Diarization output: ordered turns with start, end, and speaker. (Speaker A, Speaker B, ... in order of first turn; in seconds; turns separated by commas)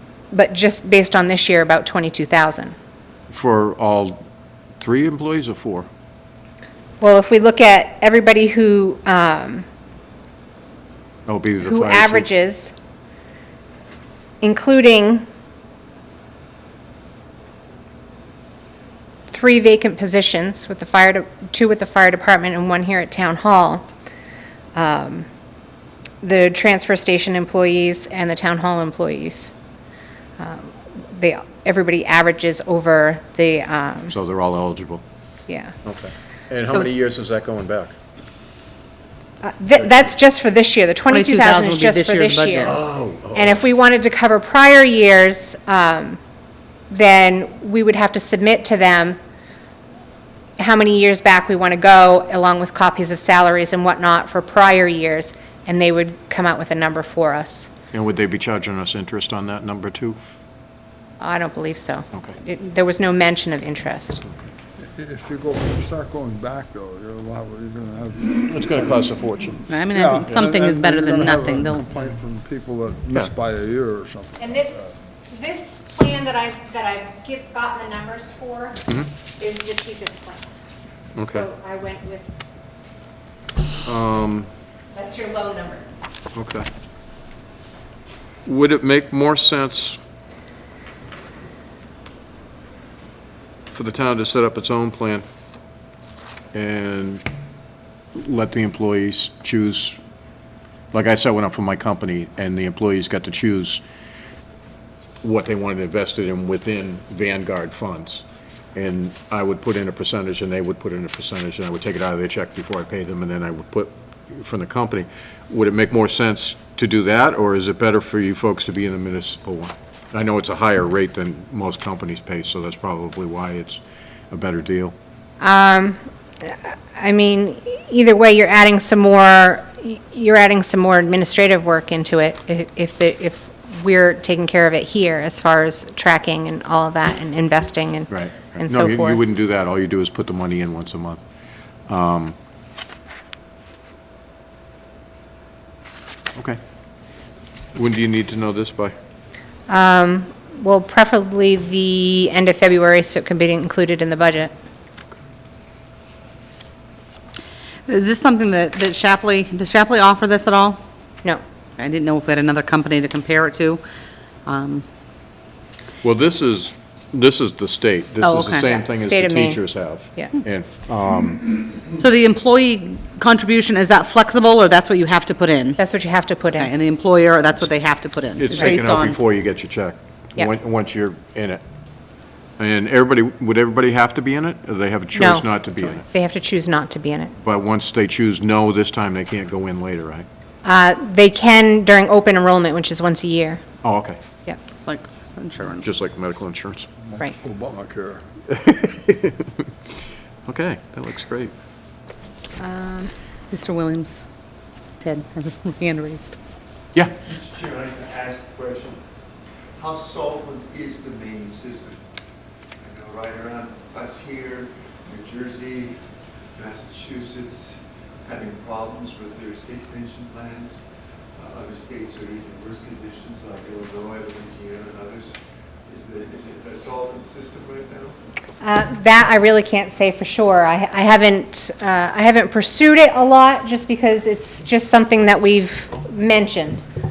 Speaker A: 0.3-2.7, Speaker B: 3.3-4.2, Speaker B: 4.8-5.9, Speaker A: 7.0-9.7, Speaker B: 11.3-12.3, Speaker A: 11.6-12.7, Speaker A: 14.4-15.2, Speaker A: 19.3-23.8, Speaker A: 24.7-25.3, Speaker A: 26.2-29.5, Speaker A: 30.4-34.1, Speaker B: 34.1-35.0, Speaker A: 35.5-35.7, Speaker B: 35.8-37.9, Speaker C: 36.6-36.9, Speaker A: 39.4-42.8, Speaker C: 41.1-42.8, Speaker B: 42.6-43.6, Speaker A: 43.3-46.2, Speaker A: 46.9-49.2, Speaker A: 50.6-57.7, Speaker B: 57.9-60.2, Speaker A: 61.2-64.2, Speaker D: 64.8-69.1, Speaker B: 68.3-69.6, Speaker C: 69.7-71.8, Speaker D: 69.9-74.9, Speaker A: 74.4-78.8, Speaker A: 79.4-80.5, Speaker B: 81.2-81.5, Speaker A: 81.2-82.3, Speaker B: 83.8-84.5, Speaker A: 84.9-85.8, Speaker B: 86.3-86.7, Speaker B: 88.4-90.0, Speaker B: 93.7-95.2, Speaker B: 96.5-97.2, Speaker B: 98.1-100.0, Speaker B: 100.9-103.8, Speaker B: 105.2-123.8, Speaker B: 124.3-124.9, Speaker A: 125.4-139.2, Speaker B: 138.1-141.2, Speaker B: 141.9-142.3, Speaker B: 147.7-148.9, Speaker A: 149.7-154.5, Speaker C: 157.9-160.8, Speaker C: 161.8-163.8, Speaker C: 164.4-164.8, Speaker B: 166.0-171.6, Speaker C: 168.2-168.8, Speaker A: 168.8-169.6, Speaker C: 172.0-175.8, Speaker A: 175.8-176.7, Speaker C: 176.6-179.2, Speaker B: 178.3-181.6, Speaker B: 182.6-186.0, Speaker A: 185.1-187.3, Speaker B: 187.4-190.3, Speaker A: 190.6-193.6, Speaker B: 193.8-194.2, Speaker C: 194.8-195.9, Speaker B: 195.8-196.9, Speaker D: 197.0-198.2, Speaker B: 198.5-199.7, Speaker B: 200.4-201.5, Speaker A: 202.6-203.1, Speaker C: 203.5-204.2, Speaker C: 205.0-206.4, Speaker E: 207.3-209.0, Speaker E: 209.8-211.9, Speaker E: 212.8-215.9, Speaker E: 216.6-220.8, Speaker E: 221.4-225.3, Speaker E: 225.9-228.1, Speaker A: 228.6-236.8